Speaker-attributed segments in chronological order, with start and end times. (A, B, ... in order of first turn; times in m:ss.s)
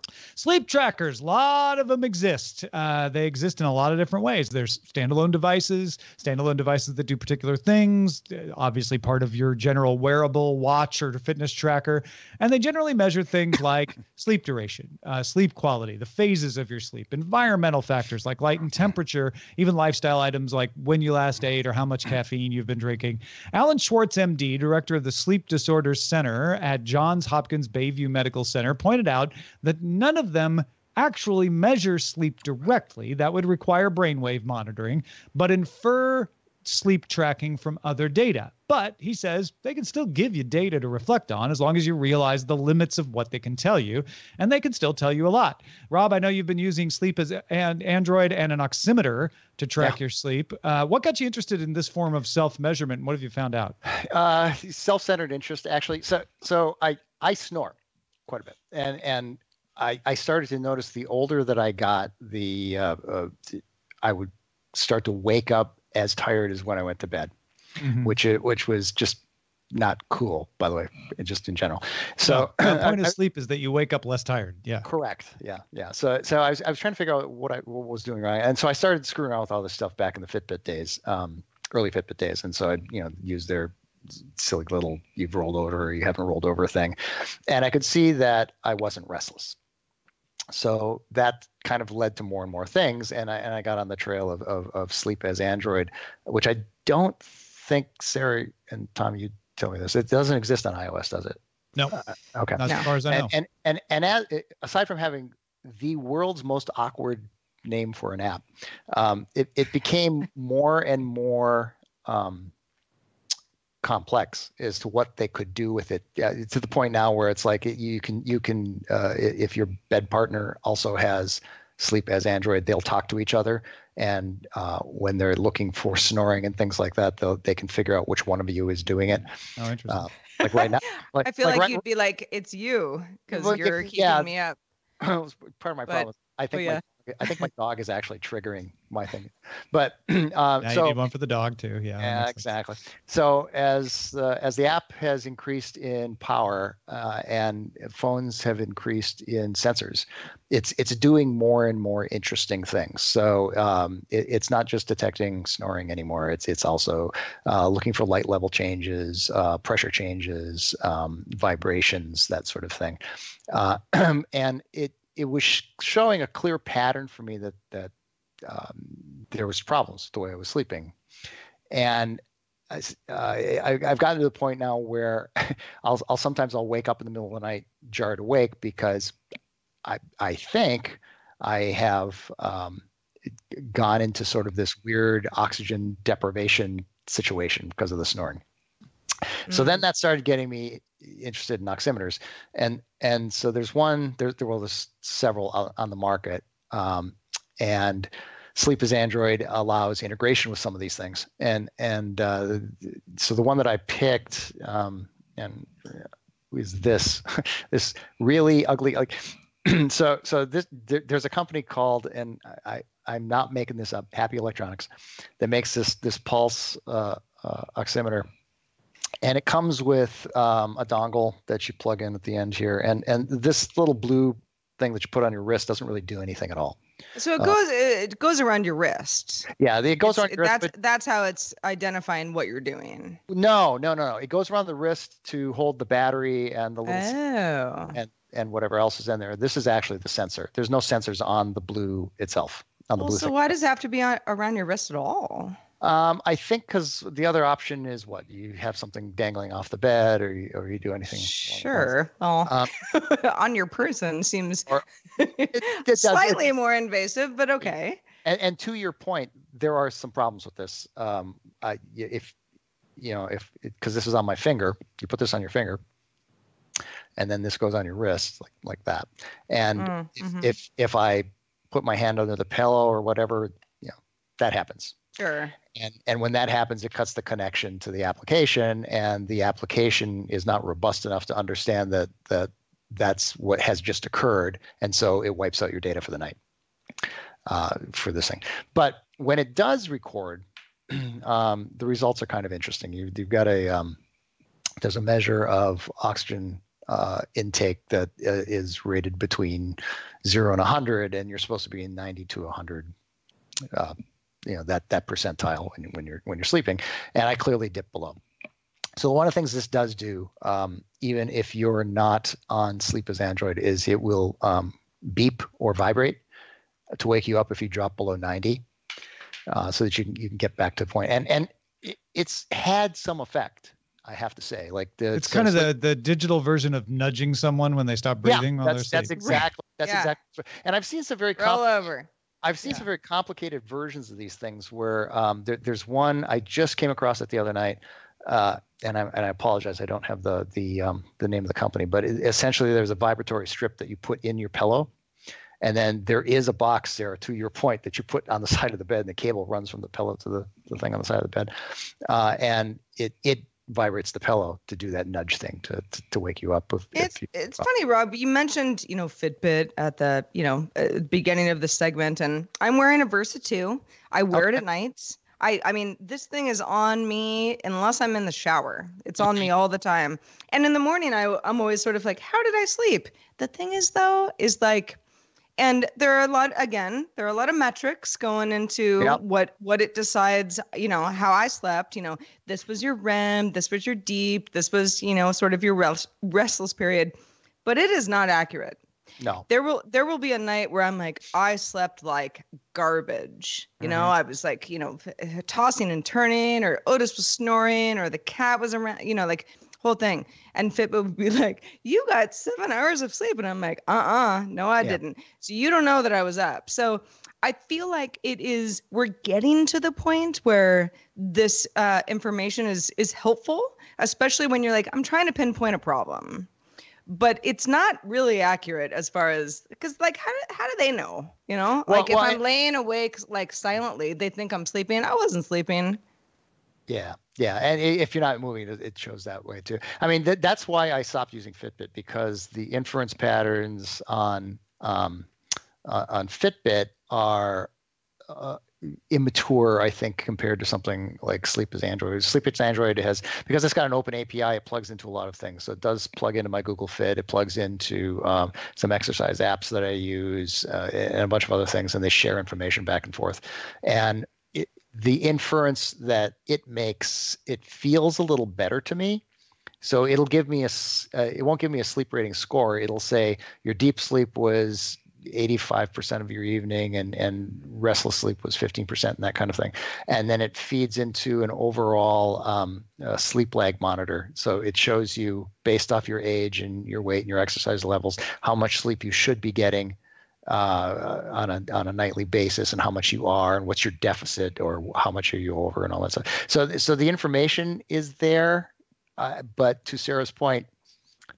0:00.4-0:53.8 A
0:53.8-0:57.8 B
0:58.3-1:07.3 B
1:07.8-1:08.1 A
1:08.0-1:09.2 B
1:09.7-1:13.1 B
1:12.2-1:14.8 A
1:14.8-1:29.6 B
1:30.5-1:41.4 B
1:41.9-1:52.5 B
1:42.5-1:43.3 A
1:53.8-2:09.3 B
2:09.6-2:10.1 A
2:09.9-2:11.8 B
2:10.4-2:14.6 C
2:13.3-2:14.3 B
2:15.0-2:21.0 B
2:15.9-2:17.4 C
2:20.6-2:22.5 A
2:22.0-2:43.0 B
2:43.5-2:47.9 B
2:48.4-2:50.9 B
2:51.7-2:59.2 B
2:59.8-3:02.8 B
3:03.5-3:08.4 B
3:09.5-3:38.3 B
3:09.5-3:09.8 C
3:39.2-3:46.8 B
3:47.2-3:49.5 C
3:49.6-3:50.7 B
3:50.0-3:53.2 C
3:53.3-3:57.1 B
3:56.8-3:58.0 C
3:57.9-4:03.5 B
4:03.0-4:05.6 C
4:05.8-4:11.9 B
4:11.1-4:18.0 C
4:12.4-4:12.7 B
4:15.5-4:16.5 B
4:18.2-4:22.3 B
4:23.0-4:25.8 B
4:27.2-4:35.0 B
4:29.8-4:30.5 C
4:35.2-4:35.6 C
4:35.7-4:46.4 B
4:47.4-4:54.0 B
4:54.8-5:02.9 B
5:03.7-5:08.2 B
5:09.0-5:16.2 B
5:16.9-5:18.6 B
5:19.5-5:25.7 B
5:25.1-5:29.1 A
5:28.2-5:31.6 B
5:29.2-5:30.1 C
5:31.4-5:32.1 C
5:32.4-5:44.9 B
5:45.6-5:51.5 B
5:52.0-5:57.6 B
5:57.0-6:15.0 C
6:04.3-6:04.6 B
6:15.6-6:28.8 C
6:29.2-6:29.4 B
6:29.5-6:56.5 C
6:33.8-6:34.1 B
6:57.1-7:06.0 C
7:01.9-7:02.4 B
7:06.9-7:15.3 B
7:15.8-7:17.7 B
7:18.3-7:39.2 B
7:39.8-8:00.0 B
8:00.5-8:10.7 B